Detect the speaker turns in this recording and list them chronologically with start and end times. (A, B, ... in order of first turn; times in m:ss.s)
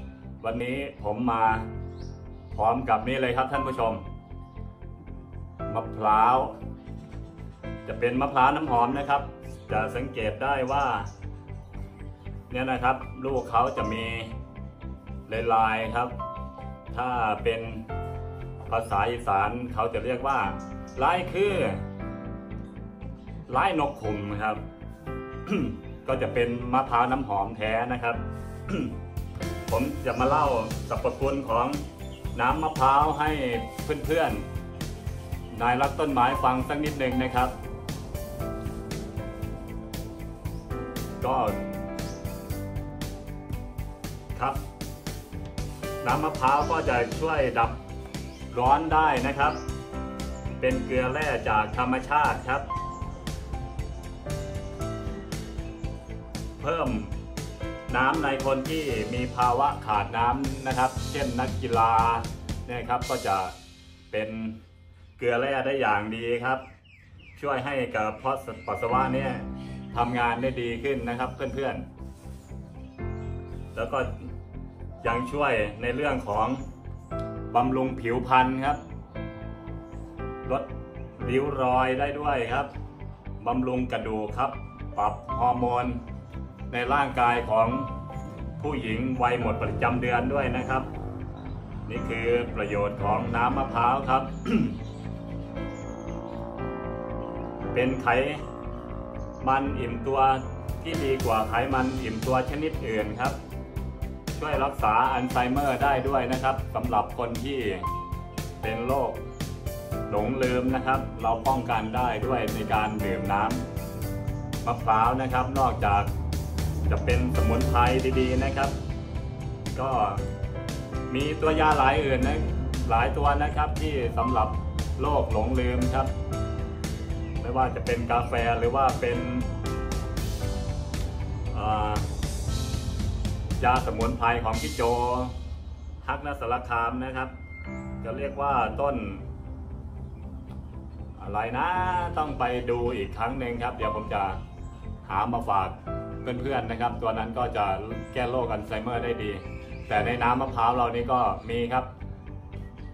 0:00.4-0:01.7 A
0:02.5-0:04.0 A
0:05.7-0:06.6 A
0:07.8-0:11.1 A
0:12.5-0:14.3 A
0:15.3-0:16.1 A
0:16.9-0:17.8 A
0:18.7-0:21.8 A
0:23.5-0:24.6 A
0:25.4-0:28.9 A
0:29.7-0:34.4 A
0:35.5-0:37.5 A
0:41.2-0:41.6 A
0:44.3-0:44.6 A
0:46.0-0:47.8 A
0:48.5-0:49.6 A
0:50.6-0:52.6 A
0:56.6-0:57.1 A
0:57.9-1:03.5 A
1:04.1-1:04.6 A
1:05.2-1:06.6 A
1:07.3-1:11.8 A
1:13.7-1:14.3 A
1:15.0-1:16.6 A
1:17.5-1:18.8 A
1:21.2-1:22.7 A
1:23.4-1:26.0 A
1:26.7-1:27.9 A
1:28.6-1:30.9 A
1:31.8-1:34.8 A
1:37.7-1:38.4 A
1:39.4-1:43.4 A
1:44.3-1:47.9 A
1:48.6-1:49.2 A
1:50.1-1:53.6 A
1:54.6-1:56.1 A
1:56.8-1:58.7 A
1:59.7-2:00.2 A
2:01.1-2:06.1 A
2:07.4-2:09.5 A
2:11.5-2:12.1 A
2:13.6-2:15.4 A
2:16.0-2:17.3 A
2:18.0-2:19.2 A
2:21.2-2:24.4 A
2:25.0-2:31.9 A